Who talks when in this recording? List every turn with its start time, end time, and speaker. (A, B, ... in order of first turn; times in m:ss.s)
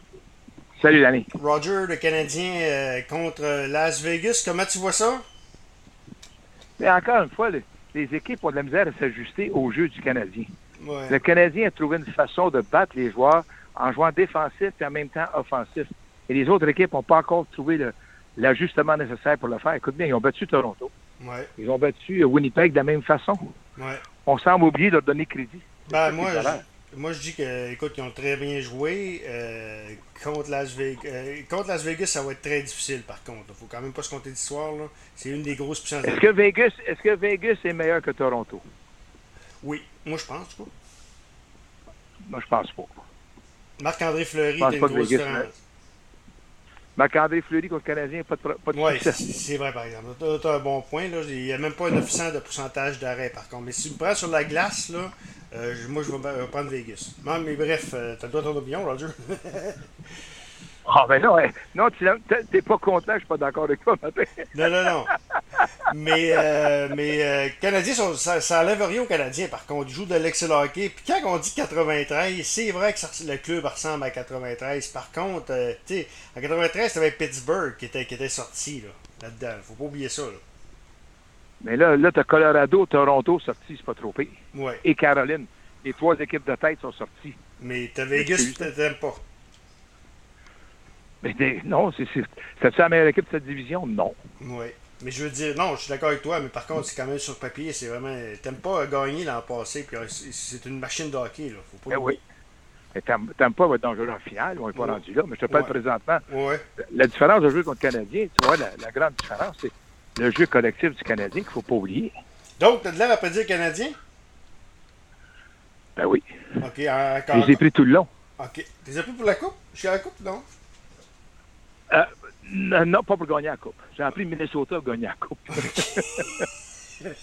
0:00.8-0:01.3 A
0:01.3-0:05.2 B
0:06.8-0:10.5 A
0:10.8-0:11.2 B
0:11.1-0:20.9 A
0:21.2-0:21.5 B
0:21.6-0:23.5 A
0:23.8-0:24.0 B
0:24.2-0:26.6 A
0:25.9-0:36.2 B
0:36.0-0:38.6 A
0:39.6-0:40.7 B
0:42.3-0:43.0 A
0:43.8-0:45.5 B
0:44.6-0:45.5 A
0:47.0-0:49.2 A
0:48.7-0:59.8 B
1:00.9-1:05.6 A
1:04.5-1:05.1 B
1:05.9-1:20.4 B
1:21.6-1:27.4 A
1:24.5-1:24.8 B
1:27.6-1:29.2 B
1:28.2-1:28.7 A
1:31.2-1:34.2 A
1:34.4-1:42.2 B
1:41.9-1:42.2 A
1:42.9-1:46.2 A
1:44.8-1:45.7 B
1:46.3-1:46.6 B
1:46.8-1:52.1 A
1:52.6-1:54.0 B
1:56.0-1:56.2 A
1:56.6-1:57.6 B
1:57.3-1:58.1 A
1:58.4-2:00.4 B
2:01.9-2:06.5 A